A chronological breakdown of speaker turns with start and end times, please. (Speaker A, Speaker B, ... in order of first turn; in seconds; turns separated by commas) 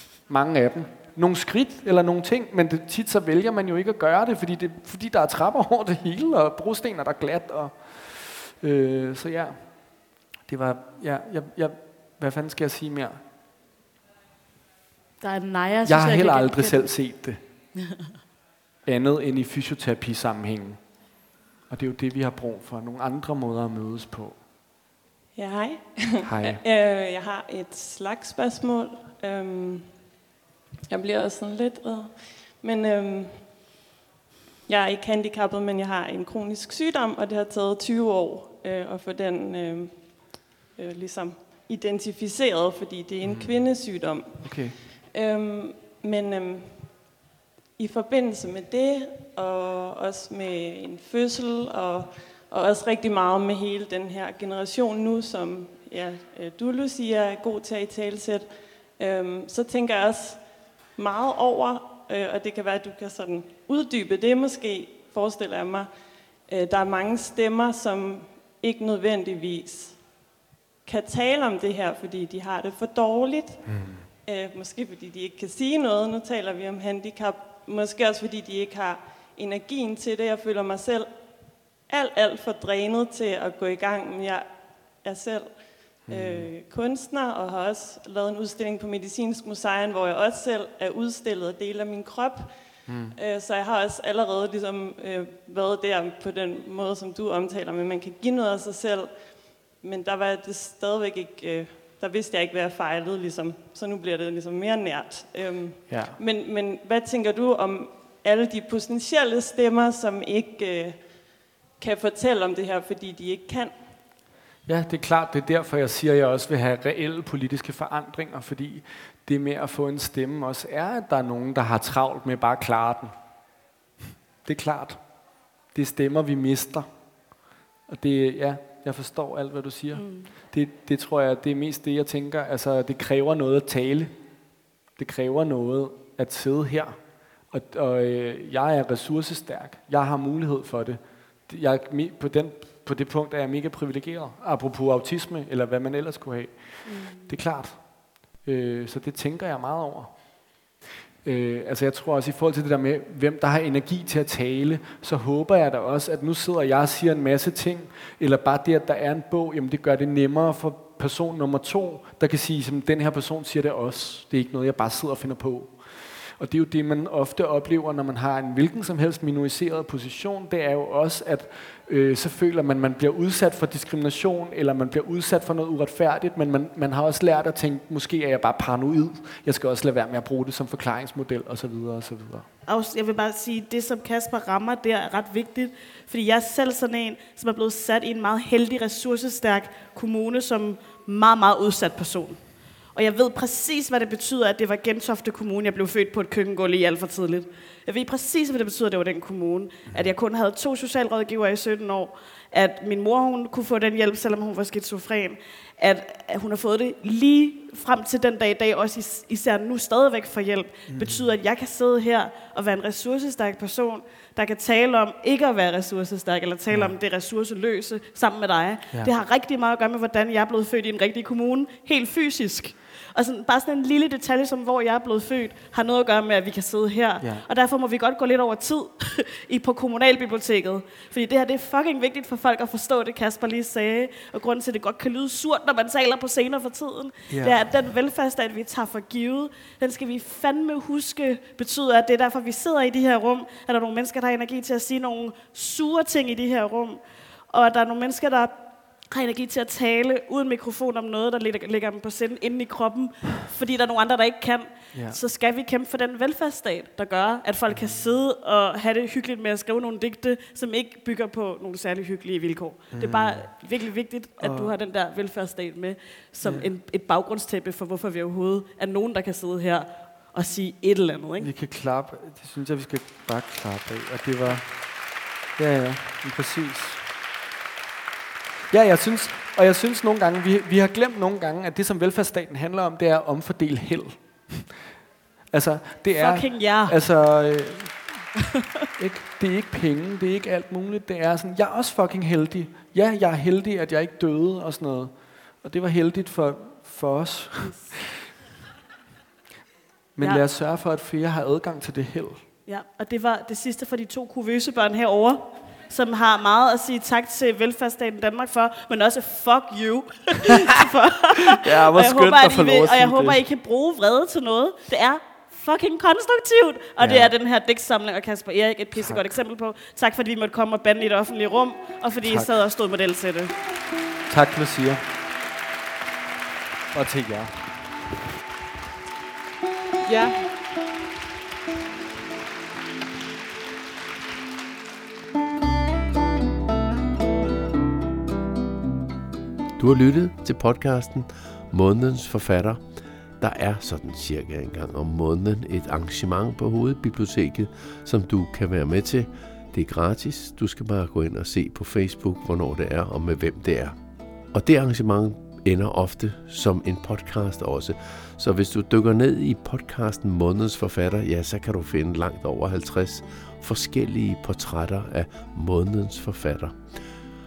Speaker A: 0.3-9.6, Speaker A: 10.5-13.2, Speaker B: 15.2-16.9, Speaker A: 15.9-17.4, Speaker A: 18.9-20.8, Speaker A: 21.7-24.4, Speaker C: 25.4-30.0, Speaker A: 26.2-26.6, Speaker C: 30.9-33.5, Speaker C: 34.7-47.1, Speaker A: 43.2-43.6, Speaker A: 44.4-44.8, Speaker C: 47.8-65.9, Speaker C: 66.5-70.1, Speaker C: 70.8-81.2, Speaker A: 73.7-74.1, Speaker C: 81.9-111.1, Speaker A: 86.1-86.5, Speaker A: 92.9-93.2, Speaker A: 105.9-106.2, Speaker C: 111.8-113.8, Speaker A: 114.7-123.1, Speaker A: 124.5-125.0, Speaker A: 125.7-126.9, Speaker A: 127.9-134.1, Speaker B: 129.9-130.3, Speaker A: 135.0-137.0, Speaker A: 137.5-147.8, Speaker B: 146.8-147.3, Speaker A: 148.4-150.1, Speaker A: 151.2-182.5, Speaker B: 182.7-192.4, Speaker B: 192.9-271.5, Speaker A: 210.9-211.3, Speaker A: 237.3-237.6, Speaker A: 254.9-255.2, Speaker A: 257.7-258.0, Speaker A: 262.9-263.5, Speaker A: 264.4-264.7, Speaker A: 271.4-274.7, Speaker A: 275.6-277.0, Speaker A: 278.7-284.8, Speaker A: 285.5-288.0, Speaker B: 286.1-287.0, Speaker A: 289.0-298.2, Speaker B: 297.6-297.9, Speaker A: 300.2-302.4, Speaker B: 302.7-323.5, Speaker A: 311.6-313.4, Speaker A: 317.0-317.3, Speaker A: 319.0-319.3, Speaker A: 322.2-322.5, Speaker A: 324.3-325.0, Speaker A: 326.9-327.6, Speaker D: 339.8-342.8, Speaker D: 343.4-354.0, Speaker D: 354.5-367.0